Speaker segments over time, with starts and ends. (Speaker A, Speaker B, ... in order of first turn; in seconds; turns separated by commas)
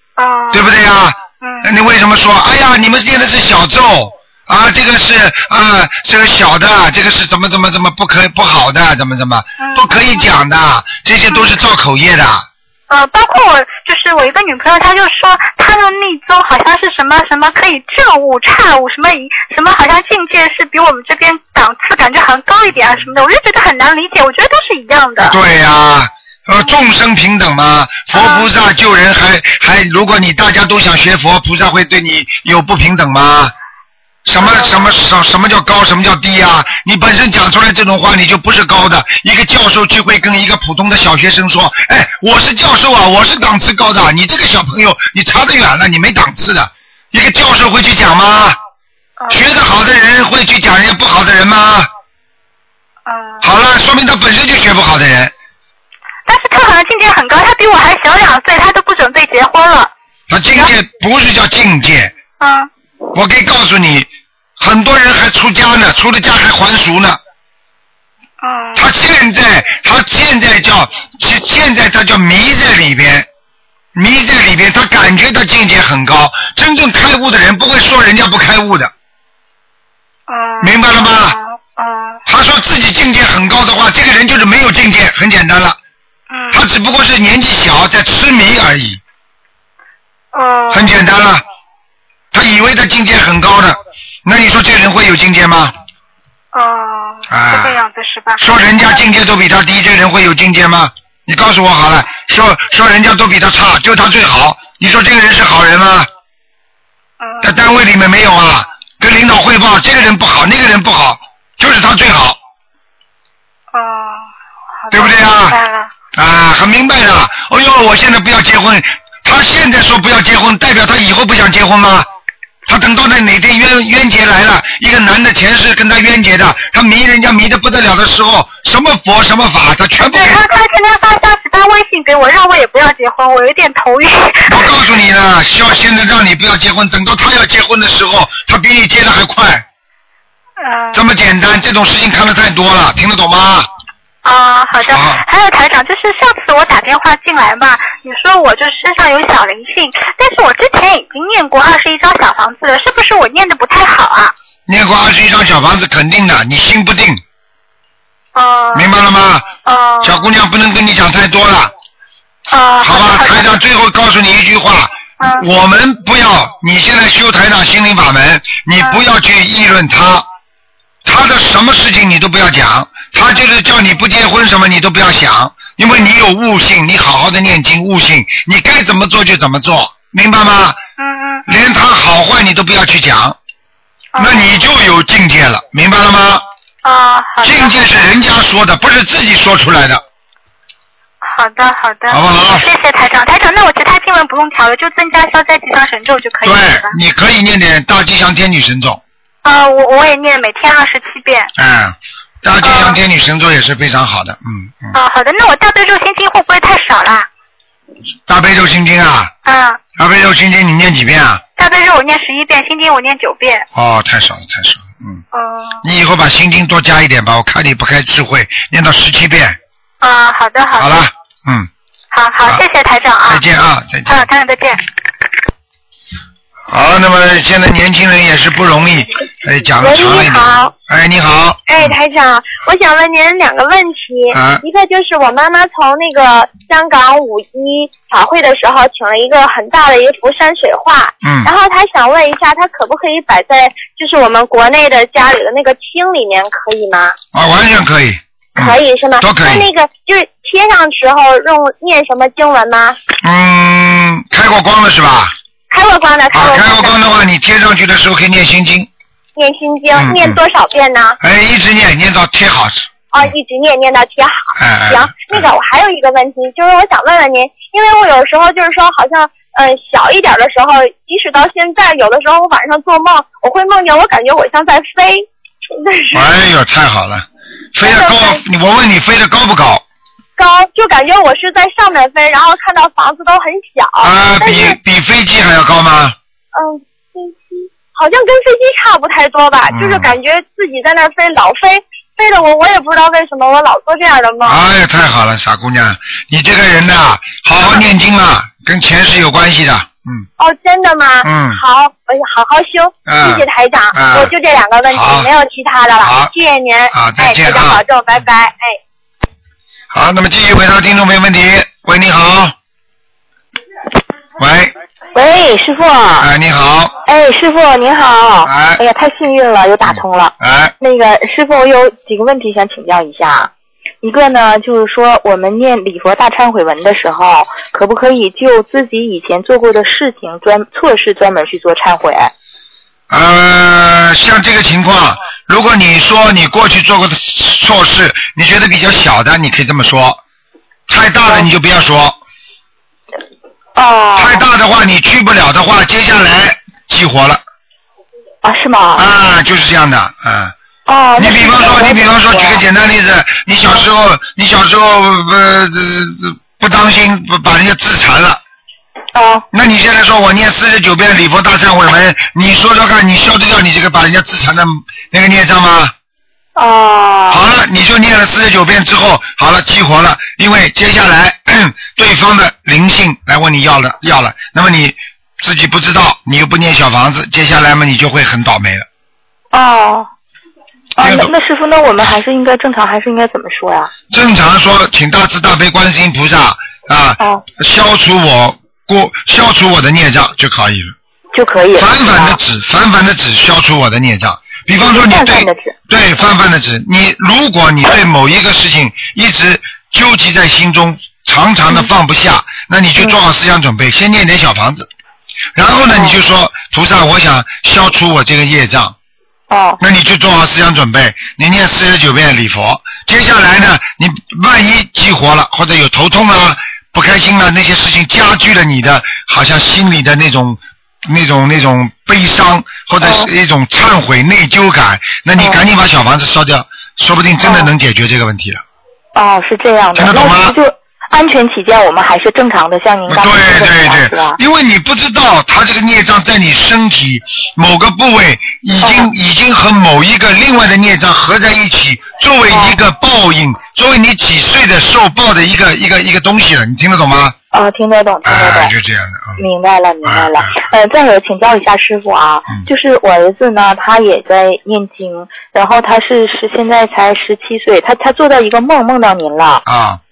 Speaker A: 0.2-0.7, Speaker B: 0.5-12.5, Speaker A: 1.4-1.7, Speaker A: 9.6-10.2, Speaker A: 12.9-25.4, Speaker B: 25.2-33.5, Speaker A: 28.1-28.5, Speaker B: 34.3-48.6, Speaker A: 34.4-34.9, Speaker B: 49.3-51.9, Speaker A: 53.1-53.5, Speaker B: 53.4-55.3, Speaker A: 56.3-59.9, Speaker B: 60.3-62.1, Speaker A: 62.4-62.7, Speaker B: 63.1-67.2, Speaker A: 68.4-68.9, Speaker B: 68.8-73.3, Speaker B: 74.0-78.9, Speaker A: 80.3-82.2, Speaker B: 80.6-81.4, Speaker B: 82.3-85.8, Speaker A: 86.3-86.6, Speaker B: 86.5-89.0, Speaker A: 90.3-91.0, Speaker B: 90.7-91.4, Speaker B: 92.3-95.7, Speaker A: 96.5-98.4, Speaker B: 97.3-97.8, Speaker B: 98.4-106.1, Speaker A: 107.2-107.6, Speaker B: 107.4-112.4, Speaker A: 113.7-114.3, Speaker A: 114.8-115.9, Speaker B: 114.9-115.6, Speaker B: 116.2-122.1, Speaker B: 122.7-130.4, Speaker A: 130.1-134.8, Speaker B: 134.5-139.7, Speaker A: 140.6-141.0, Speaker B: 140.9-143.7, Speaker A: 144.2-154.3, Speaker B: 144.8-145.2, Speaker B: 154.7-157.2, Speaker A: 158.3-158.9, Speaker B: 158.8-159.5, Speaker A: 159.6-160.3, Speaker B: 160.0-161.7, Speaker A: 162.5-163.5, Speaker B: 162.8-170.3, Speaker A: 165.2-165.5, Speaker B: 171.1-180.8, Speaker A: 181.0-181.5, Speaker B: 181.5-183.4, Speaker A: 184.2-184.5, Speaker B: 184.2-186.4, Speaker A: 186.8-187.9, Speaker B: 187.4-190.0, Speaker A: 191.2-196.9, Speaker B: 192.1-192.7, Speaker B: 196.4-199.0, Speaker A: 199.4-201.5, Speaker B: 201.6-204.9, Speaker A: 202.6-203.0, Speaker A: 204.9-207.3, Speaker B: 208.3-209.3, Speaker A: 209.4-209.8, Speaker B: 210.0-211.4, Speaker A: 211.6-213.7, Speaker B: 213.8-215.2, Speaker A: 215.3-215.8, Speaker B: 215.8-219.6, Speaker A: 220.0-221.1, Speaker B: 220.8-221.7, Speaker A: 222.1-223.4, Speaker B: 223.3-224.3, Speaker A: 224.1-224.8, Speaker B: 226.7-231.9, Speaker C: 229.8-230.7, Speaker C: 231.7-247.2, Speaker B: 234.3-234.6, Speaker B: 241.2-241.5, Speaker B: 247.3-249.7, Speaker C: 248.6-253.0, Speaker B: 253.2-255.3, Speaker C: 255.7-257.0, Speaker B: 256.3-258.9, Speaker C: 259.4-261.2, Speaker B: 259.9-260.4, Speaker B: 261.2-263.3, Speaker C: 263.1-276.3, Speaker B: 264.6-265.5, Speaker B: 276.1-279.8, Speaker C: 277.8-278.4, Speaker C: 280.4-284.8, Speaker B: 284.0-286.2, Speaker C: 286.6-294.6, Speaker B: 289.7-290.1, Speaker B: 294.4-300.3, Speaker C: 300.4-308.8, Speaker B: 301.2-301.6, Speaker B: 303.1-304.3, Speaker B: 304.9-305.3, Speaker B: 306.0-306.3, Speaker B: 306.9-307.8, Speaker B: 309.9-312.6, Speaker B: 314.4-314.7, Speaker D: 315.1-316.3, Speaker B: 316.2-316.9, Speaker D: 317.1-323.5, Speaker B: 318.4-318.8, Speaker B: 319.9-320.7, Speaker D: 324.0-332.3, Speaker B: 333.1-340.2, Speaker B: 340.9-342.2, Speaker D: 343.8-344.4, Speaker B: 344.2-347.4, Speaker D: 348.4-349.1, Speaker B: 349.0-350.5, Speaker D: 350.9-352.6, Speaker B: 351.2-358.4, Speaker D: 359.1-359.5, Speaker B: 359.5-365.9, Speaker D: 366.6-367.4, Speaker B: 367.3-378.9, Speaker D: 379.5-380.1, Speaker D: 381.0-383.9, Speaker B: 381.0-381.3, Speaker B: 384.1-390.9, Speaker D: 391.3-392.4, Speaker B: 391.8-404.9, Speaker D: 394.8-395.8, Speaker B: 405.6-409.0, Speaker D: 405.9-406.1, Speaker D: 409.5-409.8, Speaker B: 409.8-428.6, Speaker D: 423.0-423.3, Speaker D: 427.4-427.7, Speaker D: 429.1-434.4, Speaker B: 429.9-430.6, Speaker B: 433.1-447.4, Speaker D: 438.8-439.1, Speaker D: 442.5-442.8, Speaker D: 447.5-448.7, Speaker B: 448.2-449.4, Speaker D: 449.4-459.6, Speaker B: 450.1-450.6, Speaker B: 459.7-460.0